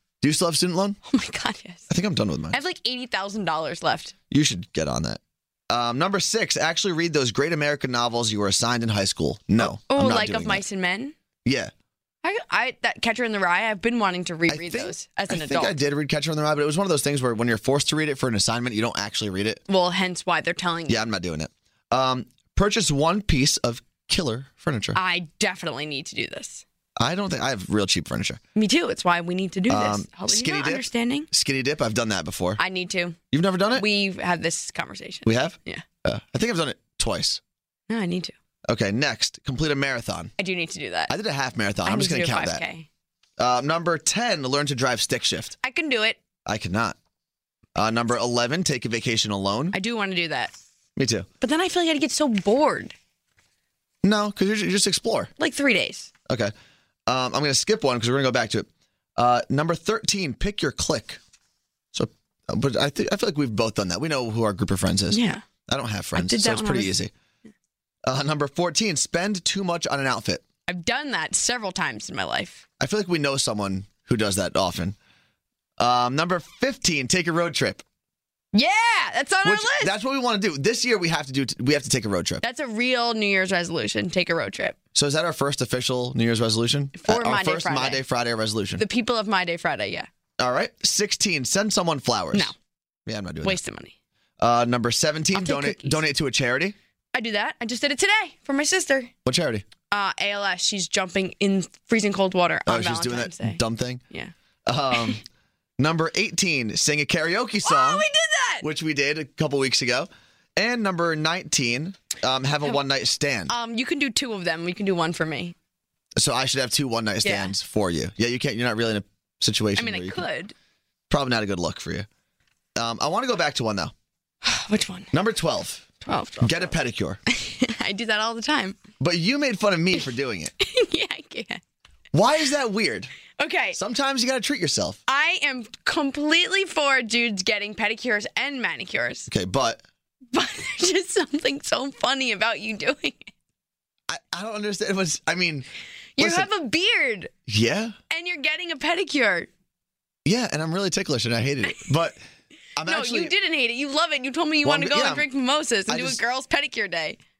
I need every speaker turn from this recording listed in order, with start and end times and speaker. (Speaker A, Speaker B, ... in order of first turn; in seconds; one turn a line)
Speaker A: 0.2-1.0
Speaker B: 1.1-1.9
Speaker A: 1.9-2.6
Speaker B: 2.5-4.1
Speaker A: 4.3-10.6
Speaker B: 9.6-11.1
Speaker A: 11.4-11.7
Speaker B: 12.2-15.8
Speaker A: 14.5-19.6
Speaker B: 19.7-21.0
Speaker A: 20.9-25.0
Speaker B: 24.9-26.6
Speaker A: 27.0-28.4
Speaker B: 28.5-31.3
Speaker A: 29.7-32.6
Speaker B: 32.6-33.2
Speaker A: 33.3-33.8
Speaker B: 33.7-35.8
Speaker A: 35.2-37.4
Speaker B: 37.9-38.3
Speaker A: 38.7-40.3
Speaker B: 40.4-41.1
Speaker A: 41.1-42.6
Speaker B: 41.8-42.9
Speaker A: 43.4-45.5
Speaker B: 45.6-46.2
Speaker A: 46.5-47.0
Speaker A: 47.7-49.8
Speaker B: 49.7-50.5
Speaker A: 51.0-51.3
Speaker B: 51.4-52.9
Speaker A: 54.0-55.3
Speaker B: 55.4-56.1
Speaker A: 56.3-56.5
Speaker A: 57.1-61.2
Speaker A: 61.9-67.1
Speaker B: 65.1-65.4
Speaker B: 66.1-66.9
Speaker A: 68.0-70.4
Speaker B: 70.7-72.6
Speaker A: 72.8-75.0
Speaker A: 75.8-77.8
Speaker B: 78.5-79.9
Speaker A: 79.4-82.4
Speaker B: 82.4-84.8
Speaker A: 84.9-88.8
Speaker B: 87.0-88.0
Speaker B: 88.8-90.1
Speaker A: 90.4-92.5
Speaker A: 93.0-93.6
Speaker B: 93.4-93.9
Speaker A: 94.4-96.7
Speaker B: 95.3-96.0
Speaker B: 97.1-99.1
Speaker A: 99.2-99.7
Speaker B: 99.9-104.3
Speaker A: 102.7-104.0
Speaker A: 104.7-105.2
Speaker A: 105.8-108.0
Speaker B: 107.6-108.7
Speaker A: 108.6-113.5
Speaker B: 113.5-115.5
Speaker A: 116.2-120.2
Speaker B: 117.2-117.5
Speaker B: 119.7-120.5
Speaker A: 121.1-122.1
Speaker A: 122.8-123.9
Speaker B: 124.4-125.1
Speaker A: 125.1-127.2
Speaker B: 126.0-126.7
Speaker B: 127.3-128.8
Speaker A: 129.0-130.5
Speaker B: 130.6-131.6
Speaker A: 132.1-133.1
Speaker B: 133.4-133.8
Speaker A: 133.7-135.0
Speaker B: 135.1-139.3
Speaker A: 139.3-139.8
Speaker B: 140.3-143.3
Speaker A: 144.1-146.5
Speaker B: 146.2-147.3
Speaker A: 147.5-147.9
Speaker B: 148.1-149.5
Speaker A: 150.2-152.2
Speaker A: 152.8-153.3
Speaker B: 152.8-157.2
Speaker A: 154.6-155.3
Speaker A: 155.9-156.2